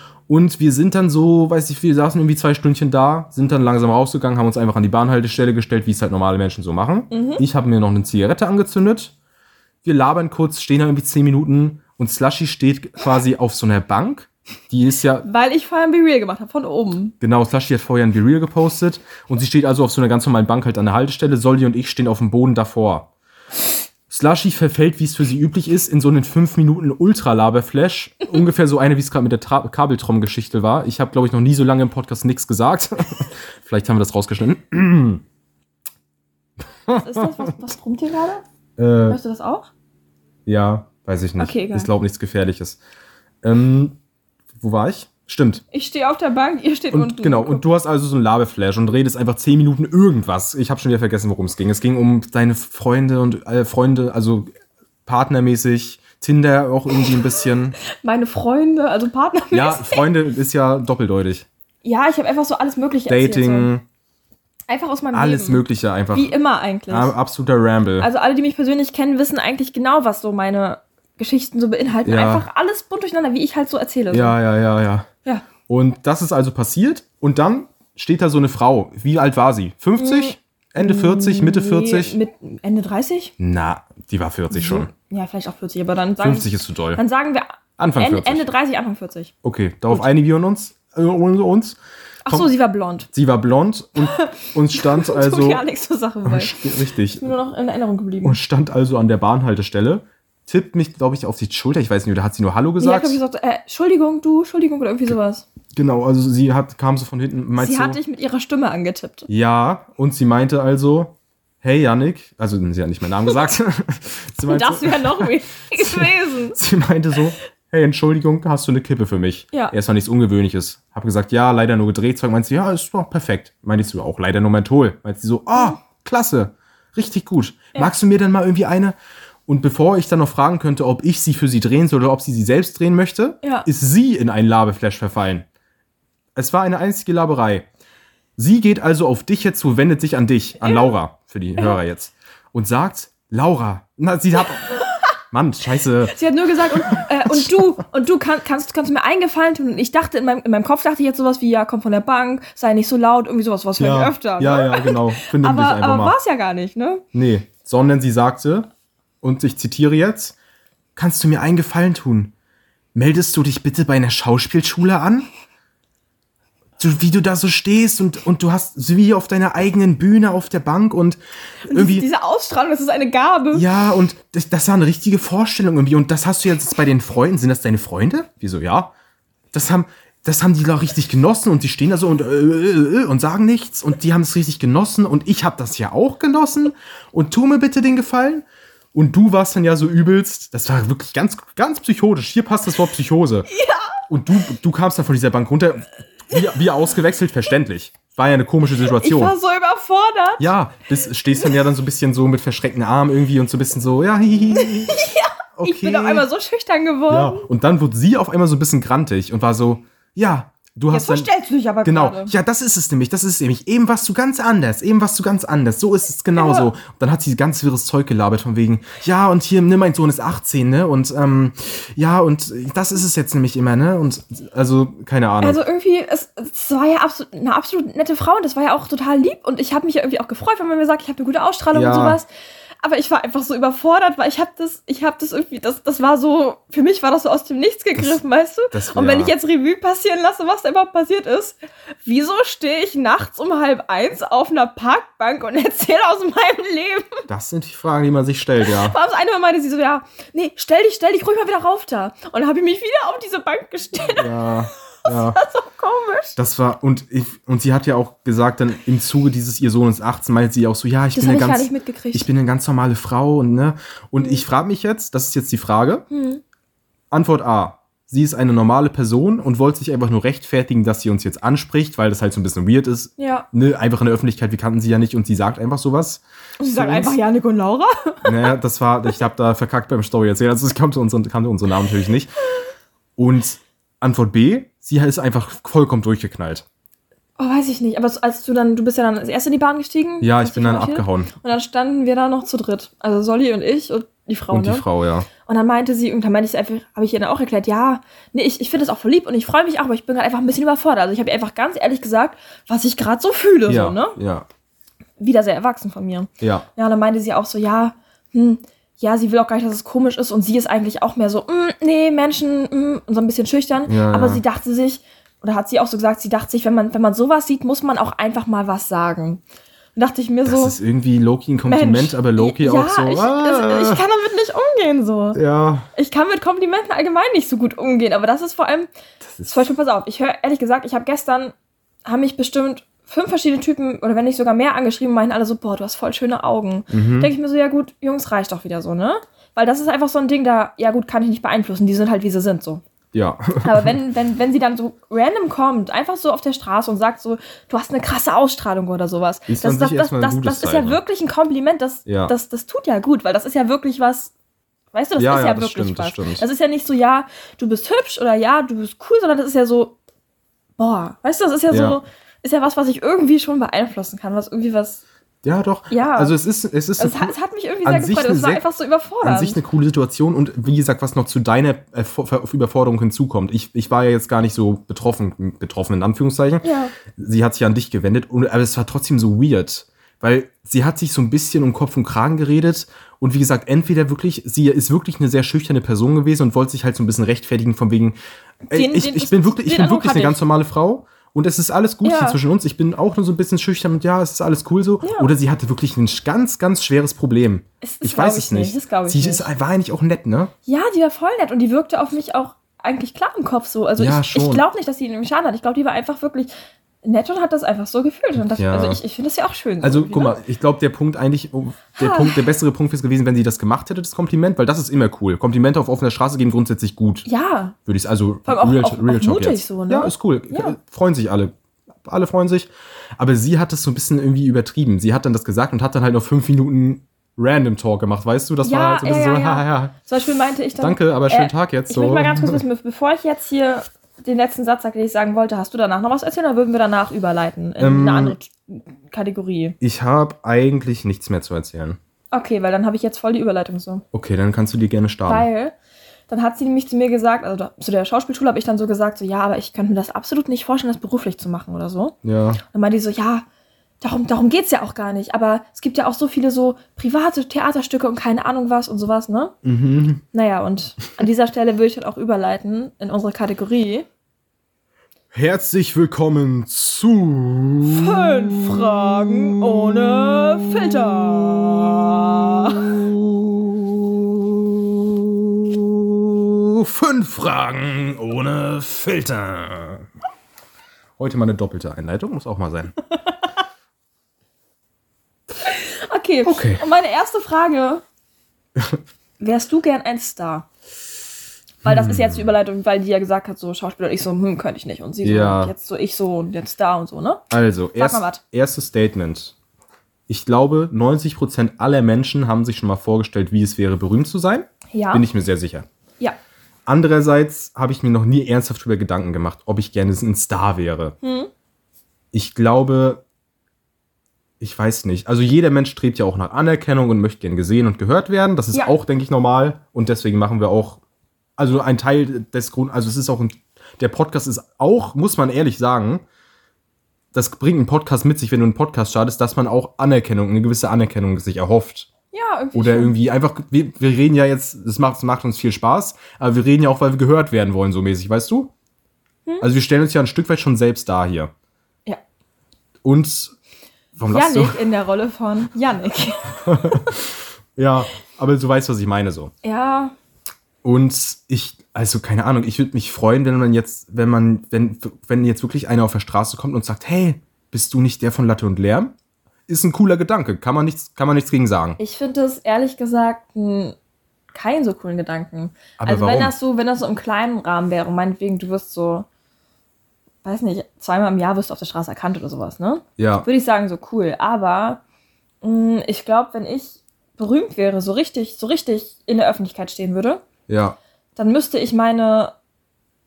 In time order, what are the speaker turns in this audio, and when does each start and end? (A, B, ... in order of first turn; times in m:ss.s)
0:00.3-0:09.1 A
0:07.1-0:07.4 B
0:09.8-0:15.2 A
0:15.2-0:17.1 B
0:17.2-0:23.1 A
0:24.1-0:35.2 A
0:36.8-0:37.5 A
0:36.9-0:38.4 B
0:38.8-0:39.2 A
0:39.1-0:39.7 B
0:40.4-0:42.8 A
0:41.4-0:41.9 B
0:43.4-0:44.0 A
0:44.6-0:45.6 A
0:45.7-0:47.6 B
0:46.9-0:54.5 A
0:55.0-0:57.8 A
0:56.9-1:00.1 B
0:59.5-1:01.5 A
1:01.8-1:03.7 B
1:03.1-1:03.8 A
1:04.7-1:07.1 B
1:05.1-1:06.3 A
1:06.9-1:08.1 A
1:08.0-1:14.4 B
1:12.0-1:12.5 A
1:14.1-1:15.1 A
1:15.6-1:22.2 A
1:20.0-1:23.3 B
1:23.4-1:24.9 A
1:24.5-1:29.3 B
1:26.2-1:27.0 A
1:27.8-1:28.5 A
1:29.4-1:32.5 A
1:32.2-1:33.1 B
1:33.1-1:35.6 A
1:34.0-1:38.4 B
1:36.2-1:37.3 A
1:38.2-1:43.2 A
1:42.8-1:45.4 B
1:45.7-1:48.0 A
1:47.6-1:49.3 B
1:49.3-2:15.5 A
1:54.5-1:56.6 B
2:16.3-2:17.7 A
2:18.4-2:24.7 A
2:20.6-2:20.9 B
2:24.4-2:25.1 B
2:25.3-2:27.7 A
2:26.1-2:37.0 B
2:33.8-2:36.2 A
2:37.1-2:38.7 A
2:39.2-2:40.4 A
2:41.0-2:42.3 A
2:42.9-2:45.3 A
2:46.8-2:52.0 A
2:51.7-2:53.6 B
2:53.5-2:58.9 A
2:59.5-3:13.5 A
3:13.5-3:14.0 B
3:14.1-3:19.3 A
3:18.9-3:20.5 B
3:20.4-3:25.0 A
3:24.6-3:27.5 B
3:25.6-3:26.2 A
3:27.1-3:31.3 A
3:30.9-3:32.3 B
3:31.8-3:45.6 A
3:36.3-3:36.7 B
3:45.4-3:52.3 B
3:51.7-3:52.2 A
3:52.8-4:07.2 B
3:58.7-3:59.3 A
4:07.3-4:09.0 A
4:08.6-4:14.4 B
4:14.1-4:15.4 A
4:15.0-4:16.4 B
4:16.4-4:26.0 A
4:21.1-4:22.3 B
4:26.1-4:26.4 B
4:27.1-4:37.2 A
4:33.2-4:33.5 B
4:36.6-4:38.5 B
4:38.2-4:42.3 A
4:43.2-4:46.6 A
4:47.4-4:54.8 B
4:50.2-4:51.3 A
4:54.5-4:55.3 A
4:55.4-5:04.2 B
5:03.7-5:04.5 A
5:05.2-5:19.4 B
5:06.4-5:06.7 A
5:13.8-5:14.4 A
5:20.0-5:20.8 B
5:20.4-5:24.0 A
5:21.6-5:25.4 B
5:25.3-5:25.9 A
5:26.0-5:28.9 B
5:29.2-5:29.6 A
5:29.4-5:31.5 B
5:32.0-5:42.8 B
5:36.9-5:37.3 A
5:43.1-5:43.9 A
5:43.6-5:54.3 B
5:49.5-5:51.0 A
5:52.0-5:52.3 A
5:54.9-6:00.0 B
5:55.2-5:56.4 A
6:00.8-6:05.0 B
6:01.7-6:02.0 A
6:05.4-6:08.6 A
6:05.9-6:06.3 B
6:07.0-6:09.6 B
6:09.2-6:28.2 A
6:16.6-6:16.9 B
6:28.7-6:30.4 B
6:28.7-6:40.5 A
6:32.0-6:32.4 B
6:35.0-6:35.3 B
6:37.8-6:39.4 B
6:40.6-6:46.5 B
6:44.0-6:44.6 A
6:47.0-6:50.4 B
6:48.5-6:49.0 A
6:49.8-6:57.2 A
6:51.9-6:52.4 B
6:57.2-6:57.8 B
6:57.8-7:01.5 A
6:58.4-7:00.8 B
7:02.0-7:09.9 A
7:08.6-7:19.8 B
7:10.8-7:12.6 A
7:17.8-7:18.4 A
7:19.8-7:22.0 A
7:22.3-7:24.0 B
7:24.1-7:25.5 A
7:25.2-7:25.7 B
7:26.3-7:33.4 B
7:32.2-7:32.6 A
7:34.0-7:39.5 B
7:39.6-7:40.2 A
7:40.3-7:44.1 B
7:45.3-7:50.5 A
7:47.8-7:53.0 B
7:52.6-8:00.0 A
8:01.2-8:02.9 A
8:03.2-8:03.5 B
8:05.6-8:08.0 B
8:06.4-8:06.8 A
8:09.4-8:10.6 B
8:11.8-8:18.4 B
8:11.8-8:12.5 A
8:15.2-8:15.7 A
8:17.5-8:19.5 A
8:20.3-8:25.8 A
8:24.9-8:25.2 B
8:26.8-8:31.2 A
8:31.2-8:31.5 B
8:32.3-8:33.2 A
8:34.6-8:41.0 A
8:41.6-8:46.2 A
8:47.3-8:52.1 A
8:52.3-8:53.1 B
8:52.7-8:58.7 A
8:59.6-9:01.5 A
9:03.0-9:03.5 A
9:04.2-9:04.8 A
9:04.3-9:07.2 B
9:06.6-9:09.5 A
9:09.6-9:10.1 B
9:10.8-9:19.1 A
9:19.7-9:22.0 A
9:22.0-9:23.9 B
9:24.5-9:29.3 B
9:26.0-9:26.5 A
9:30.4-9:35.0 B
9:33.2-9:33.5 A
9:35.6-9:40.4 B
9:40.7-9:41.0 A
9:41.4-9:42.5 B